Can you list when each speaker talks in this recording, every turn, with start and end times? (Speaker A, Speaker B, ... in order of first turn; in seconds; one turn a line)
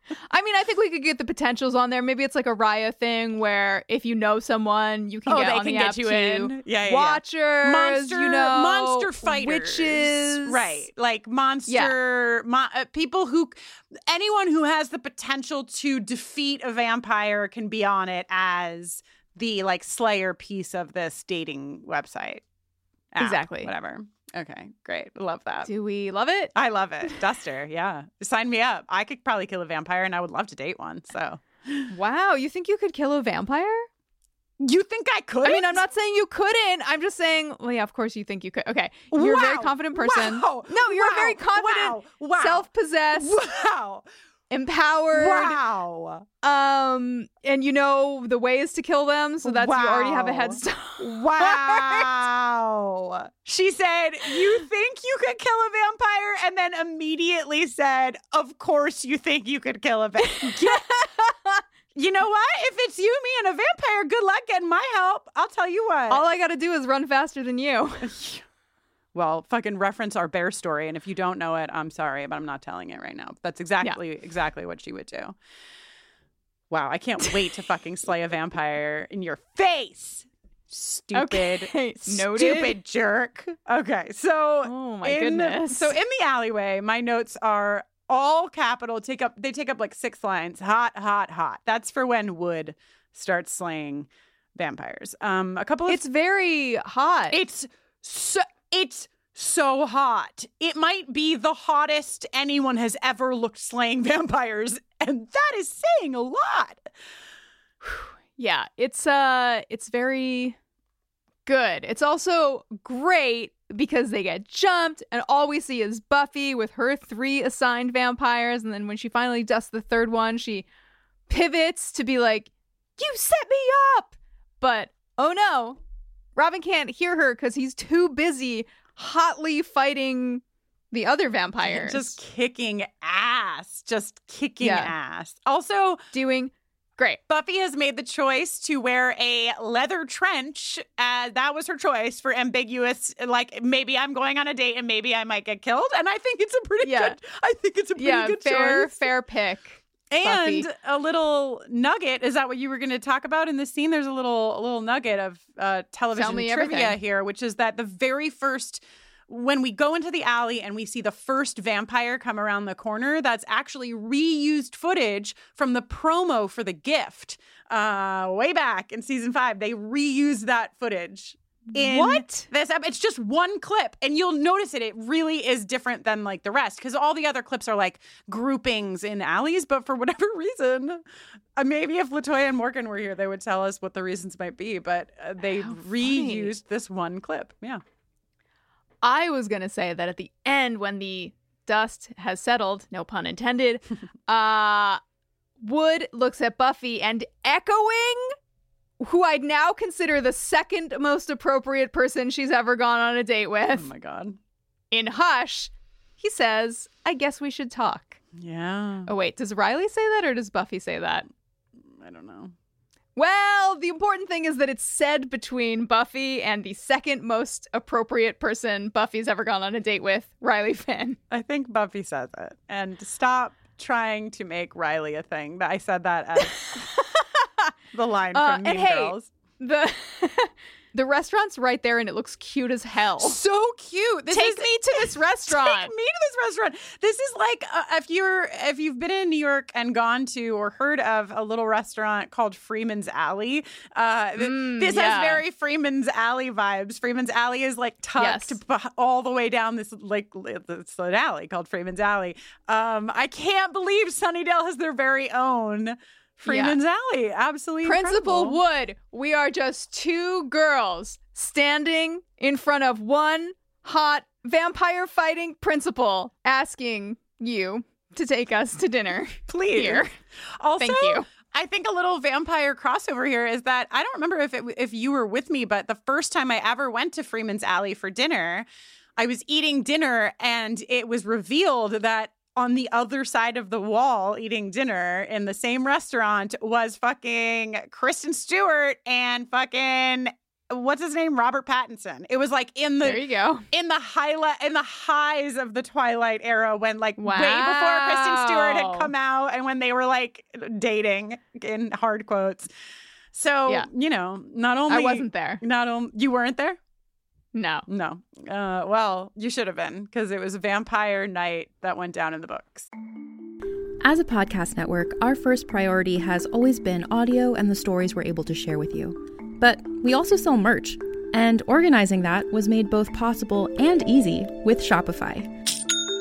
Speaker A: 0.3-10.8
Speaker B: 5.3-22.4
Speaker A: 11.7-11.9
Speaker B: 23.1-25.7
Speaker A: 23.2-23.7
Speaker A: 25.6-27.2
Speaker B: 26.6-31.9
Speaker A: 31.9-33.9
Speaker B: 34.6-35.8
Speaker A: 35.4-43.4
Speaker B: 39.1-44.1
Speaker A: 44.5-45.6
Speaker B: 45.1-46.2
Speaker A: 46.4-52.2
Speaker B: 49.4-61.1
Speaker A: 60.2-61.6
Speaker B: 62.0-66.3
Speaker A: 66.1-68.1
Speaker B: 68.0-68.4
Speaker B: 69.1-75.4
Speaker B: 76.7-96.0
Speaker A: 81.1-82.8
Speaker A: 84.6-85.9
Speaker A: 95.9-97.4
Speaker B: 97.3-106.9
Speaker A: 107.8-110.6
Speaker A: 111.5-120.7
Speaker A: 121.3-125.8
Speaker A: 126.4-132.2
Speaker B: 131.6-136.1
Speaker A: 134.6-134.9
Speaker A: 136.1-137.2
Speaker B: 137.3-149.1
Speaker A: 146.8-147.2
Speaker A: 148.0-150.7
Speaker B: 150.1-181.0
Speaker A: 156.1-157.0
Speaker A: 171.7-172.5
Speaker B: 181.6-187.8
Speaker A: 185.5-186.5
Speaker A: 189.0-195.0
Speaker A: 195.6-198.3
Speaker A: 199.0-203.9
Speaker B: 203.7-204.4
Speaker A: 204.9-208.2
Speaker B: 208.3-209.1
Speaker A: 209.1-211.3
Speaker B: 211.9-212.5
Speaker A: 213.2-221.2
Speaker B: 221.3-226.8
Speaker A: 226.4-227.5
Speaker B: 227.9-229.3
Speaker A: 228.3-233.4
Speaker B: 233.2-258.6
Speaker A: 234.3-235.9
Speaker A: 244.4-245.4
Speaker A: 248.2-248.6
Speaker A: 256.5-256.8
Speaker A: 257.8-270.1
Speaker B: 269.5-278.7
Speaker A: 270.8-271.2
Speaker B: 279.2-302.7
Speaker A: 293.0-293.7
Speaker A: 297.2-299.1
Speaker B: 303.3-306.8
Speaker A: 304.9-305.6
Speaker A: 307.5-307.9
Speaker B: 307.9-312.9
Speaker C: 314.0-325.5